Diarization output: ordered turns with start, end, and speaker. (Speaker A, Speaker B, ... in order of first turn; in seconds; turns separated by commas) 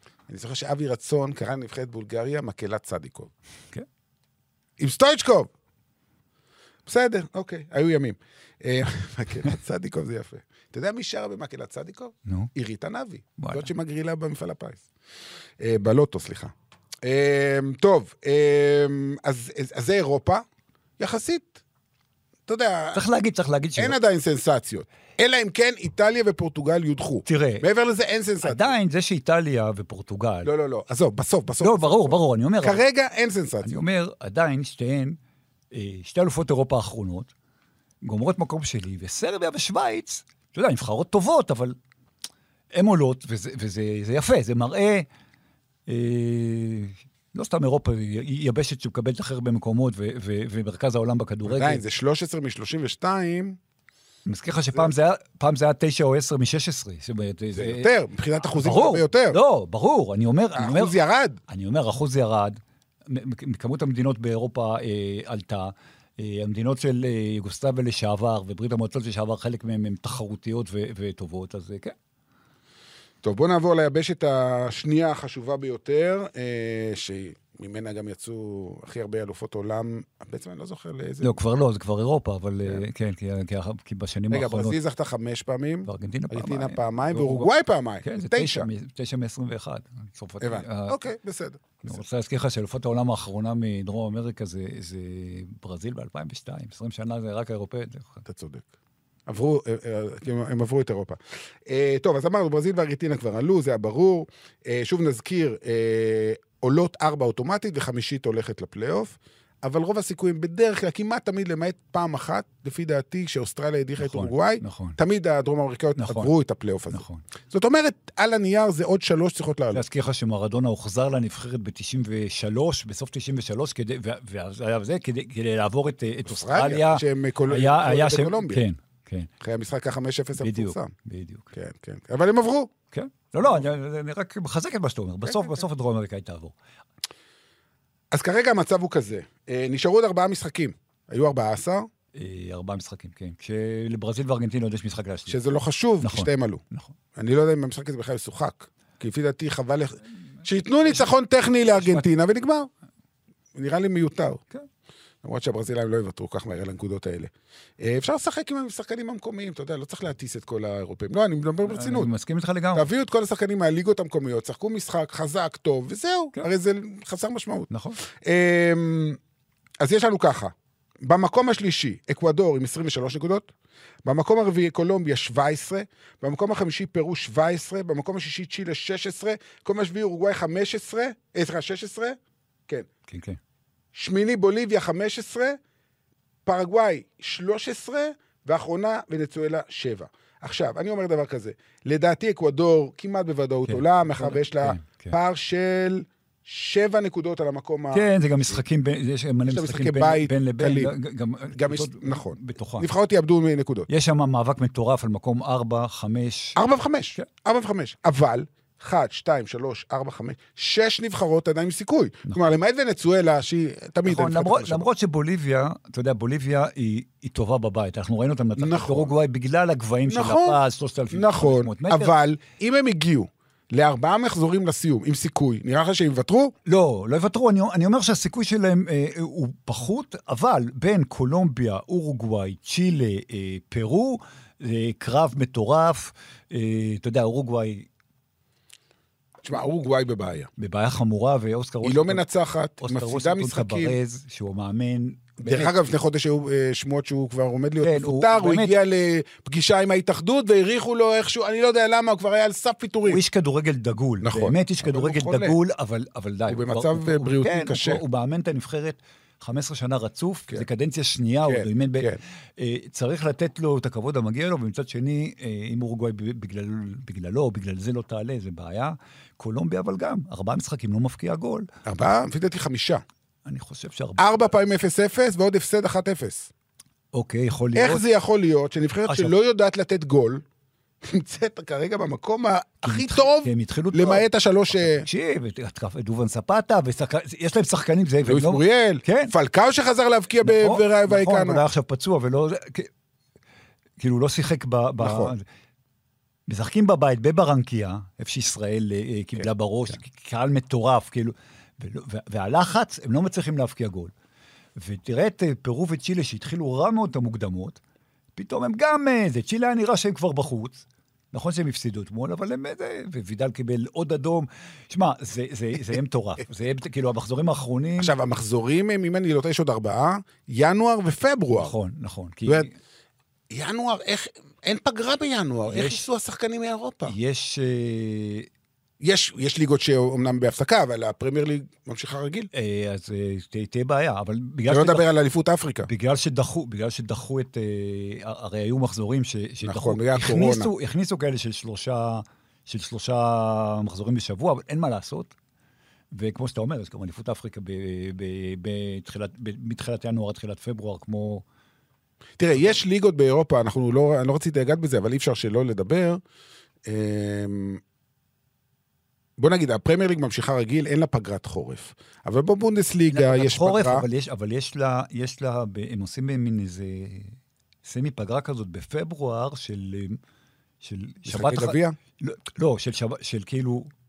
Speaker A: 0.3-3.3, Speaker A: 4.8-5.5, Speaker A: 6.9-14.8, Speaker B: 13.4-13.7, Speaker A: 15.6-20.4, Speaker A: 21.0-21.6, Speaker A: 22.5-23.0, Speaker B: 22.9-23.9, Speaker A: 23.8-28.7, Speaker B: 27.2-27.6, Speaker B: 28.4-30.5, Speaker A: 30.4-33.8, Speaker B: 31.6-32.8, Speaker B: 33.6-35.2, Speaker B: 35.7-37.3, Speaker B: 38.0-41.8, Speaker B: 42.7-45.1, Speaker B: 45.9-51.8, Speaker A: 51.5-53.6, Speaker B: 54.2-57.9, Speaker A: 57.5-59.4, Speaker B: 58.6-60.9, Speaker A: 60.5-61.4, Speaker B: 61.5-72.0, Speaker A: 73.2-81.3, Speaker B: 81.2-84.8, Speaker A: 84.3-88.7, Speaker B: 85.9-87.5, Speaker B: 88.0-91.0, Speaker A: 90.4-92.0, Speaker B: 91.8-98.2, Speaker A: 98.2-98.7, Speaker A: 99.3-119.8, Speaker B: 114.0-115.0, Speaker B: 116.0-116.3, Speaker B: 116.9-117.2, Speaker B: 119.7-129.3, Speaker A: 126.2-128.6, Speaker A: 129.4-130.9, Speaker B: 130.4-131.5, Speaker A: 131.5-132.7, Speaker B: 132.9-136.6, Speaker A: 138.1-141.9, Speaker B: 142.1-145.4, Speaker A: 145.3-146.6, Speaker B: 146.0-146.9, Speaker A: 147.1-152.7, Speaker B: 150.8-151.1, Speaker B: 151.7-152.1, Speaker A: 153.6-154.4, Speaker A: 155.2-162.1, Speaker B: 161.6-162.9, Speaker A: 162.7-169.2, Speaker B: 167.7-168.0, Speaker A: 169.8-173.5, Speaker A: 174.1-182.9, Speaker B: 183.1-183.4, Speaker A: 183.9-185.6, Speaker A: 186.4-198.6, Speaker B: 193.7-195.1, Speaker B: 197.9-202.9, Speaker A: 199.5-200.9, Speaker A: 201.5-203.9, Speaker B: 203.9-206.6, Speaker A: 206.6-214.9, Speaker B: 214.1-222.1, Speaker A: 218.6-219.1, Speaker A: 220.1-220.6, Speaker A: 221.1-226.5, Speaker B: 226.7-237.9, Speaker A: 239.4-240.5, Speaker B: 240.6-242.2, Speaker A: 241.8-244.0, Speaker B: 242.8-245.7, Speaker A: 245.4-253.2, Speaker B: 247.8-248.8, Speaker B: 253.1-271.7, Speaker A: 254.2-255.6, Speaker A: 256.5-258.0, Speaker A: 261.4-262.2, Speaker A: 271.9-273.0, Speaker B: 273.4-274.2, Speaker A: 274.2-276.5, Speaker B: 277.1-278.0, Speaker A: 277.7-280.4, Speaker B: 279.1-279.3, Speaker A: 281.0-285.1, Speaker B: 282.8-289.3, Speaker A: 288.2-291.6, Speaker B: 290.4-292.9, Speaker B: 294.0-295.4, Speaker A: 295.0-295.3, Speaker B: 296.5-304.1, Speaker B: 304.8-307.8, Speaker B: 308.4-318.1, Speaker A: 318.0-321.7, Speaker B: 321.6-322.7, Speaker A: 323.5-327.1, Speaker B: 325.7-326.0, Speaker B: 327.1-328.5, Speaker A: 329.0-332.5, Speaker B: 332.5-335.1, Speaker A: 334.7-335.9, Speaker B: 335.8-345.3, Speaker A: 339.6-340.7, Speaker B: 346.1-351.4, Speaker A: 352.4-356.2, Speaker A: 356.9-357.8, Speaker A: 359.4-364.1, Speaker B: 363.1-370.2, Speaker B: 370.8-373.9, Speaker A: 371.2-371.9